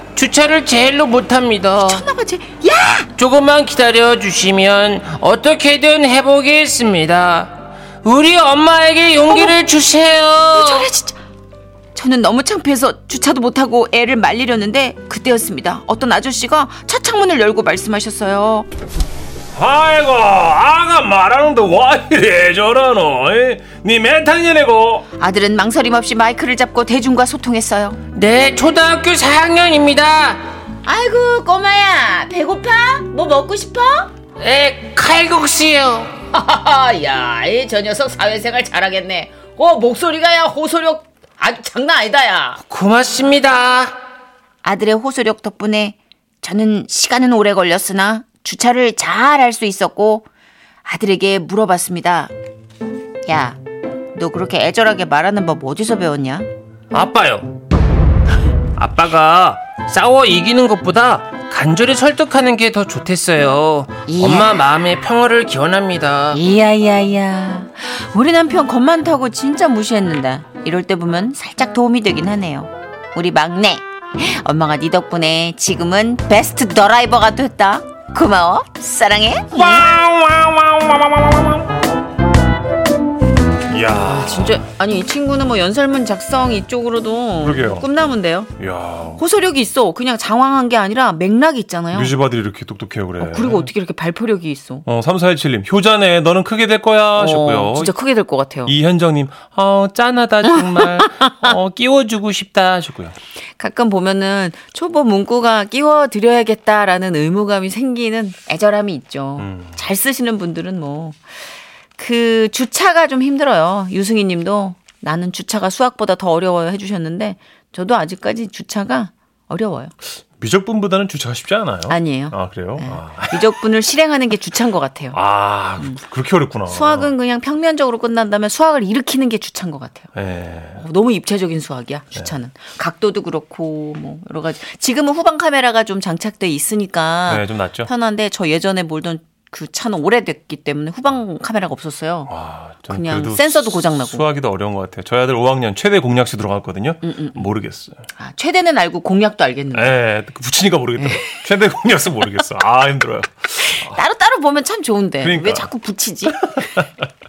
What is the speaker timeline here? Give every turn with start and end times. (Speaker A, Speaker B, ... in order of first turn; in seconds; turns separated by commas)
Speaker A: 0.1-2.0, Speaker B: 1.8-3.1, Speaker A: 3.1-10.9, Speaker B: 9.3-9.6, Speaker B: 10.5-11.2, Speaker B: 11.9-18.7, Speaker C: 19.6-25.1, Speaker B: 25.2-28.0, Speaker A: 28.1-30.4, Speaker B: 30.8-34.1, Speaker A: 34.4-36.1, Speaker B: 36.3-42.6, Speaker A: 42.6-44.0, Speaker B: 44.6-50.3, Speaker B: 50.9-52.3, Speaker B: 53.3-53.6, Speaker B: 54.1-56.5, Speaker A: 56.9-57.5, Speaker A: 58.8-66.4, Speaker B: 64.1-64.7, Speaker B: 66.3-79.9, Speaker C: 79.6-81.1, Speaker C: 83.7-84.6, Speaker B: 84.0-88.5, Speaker C: 87.4-87.9, Speaker C: 88.6-89.2, Speaker B: 89.2-92.1, Speaker C: 91.9-93.7, Speaker B: 93.2-94.8, Speaker C: 94.9-97.9, Speaker B: 97.2-98.7, Speaker C: 98.7-103.2, Speaker B: 100.8-101.5, Speaker B: 103.6-111.2, Speaker C: 109.4-109.8, Speaker B: 112.0-119.9, Speaker C: 120.4-123.5, Speaker B: 121.9-125.2, Speaker C: 125.1-127.1, Speaker B: 126.7-130.1, Speaker C: 130.2-130.8, Speaker B: 130.8-142.3, Speaker C: 137.3-137.9, Speaker C: 142.3-148.0, Speaker B: 142.9-144.2, Speaker B: 147.0-147.4, Speaker B: 148.2-150.0, Speaker C: 149.7-154.0, Speaker B: 151.0-151.4, Speaker B: 153.6-156.8, Speaker C: 155.2-155.7, Speaker C: 156.3-156.9